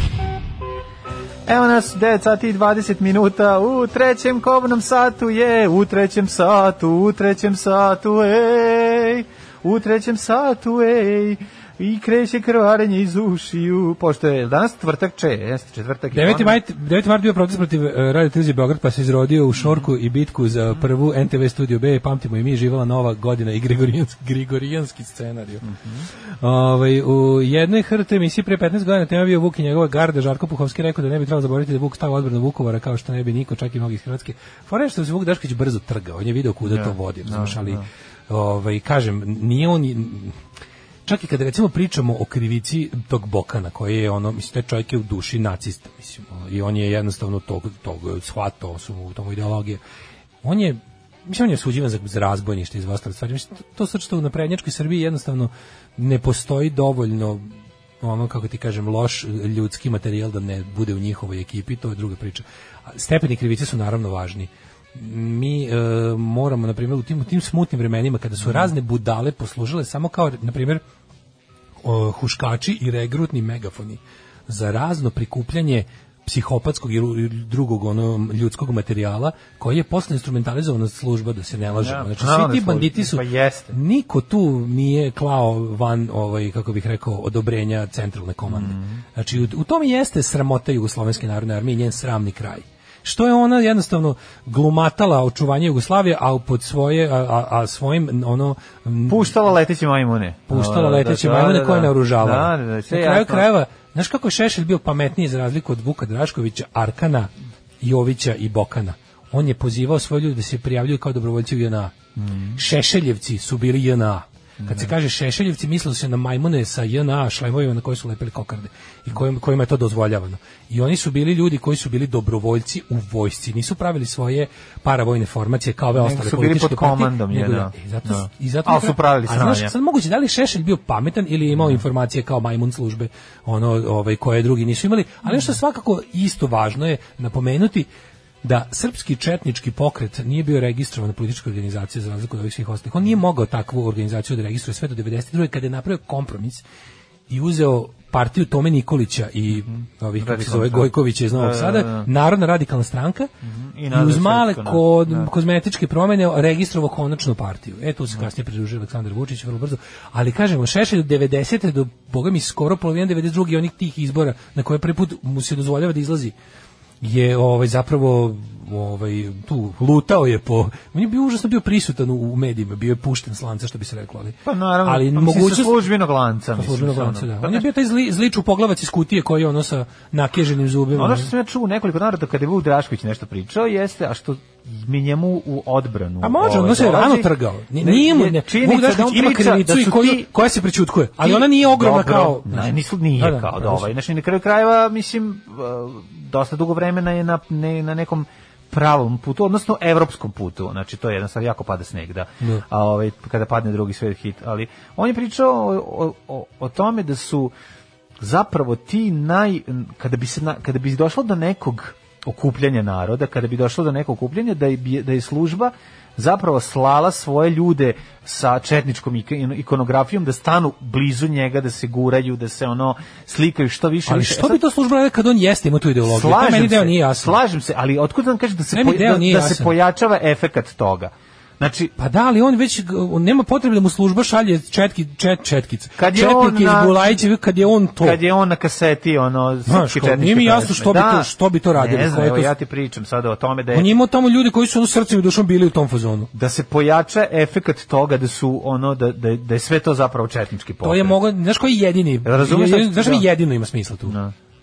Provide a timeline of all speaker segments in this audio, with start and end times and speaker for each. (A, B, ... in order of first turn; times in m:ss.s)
0:01.5-0:16.6 A
0:16.1-0:25.7 B
0:19.6-0:19.8 A
0:25.6-0:26.0 A
0:26.4-0:40.4 B
0:36.7-0:37.8 A
0:41.1-0:49.8 B
0:50.4-1:10.8 B
1:08.4-1:08.7 A
1:11.8-1:39.3 B
1:21.7-1:23.8 A
1:28.5-1:29.0 A
1:39.1-1:43.5 A
1:40.5-1:52.0 B
1:52.2-1:52.6 A
1:52.6-2:17.9 B
1:54.6-1:54.9 A
2:06.0-2:09.7 A
2:11.6-2:11.8 A
2:18.4-2:26.6 B
2:27.3-2:33.3 B
2:29.6-2:32.1 A
2:33.4-2:35.3 A
2:33.9-2:46.3 B
2:47.0-2:55.9 B
2:54.4-2:57.7 A
2:56.6-3:01.3 B
3:00.9-3:10.3 A
3:06.2-3:13.9 B
3:11.2-3:27.5 A
3:28.2-3:44.6 A
3:44.1-3:47.4 B
3:46.0-3:52.0 A
3:48.7-3:49.7 B
3:52.0-3:58.2 B
3:56.0-3:57.2 A
3:58.0-4:03.9 A
3:59.7-4:02.5 B
4:03.7-4:06.3 B
4:06.3-4:11.2 A
4:10.8-4:14.2 B
4:12.2-4:13.3 A
4:14.1-4:14.3 A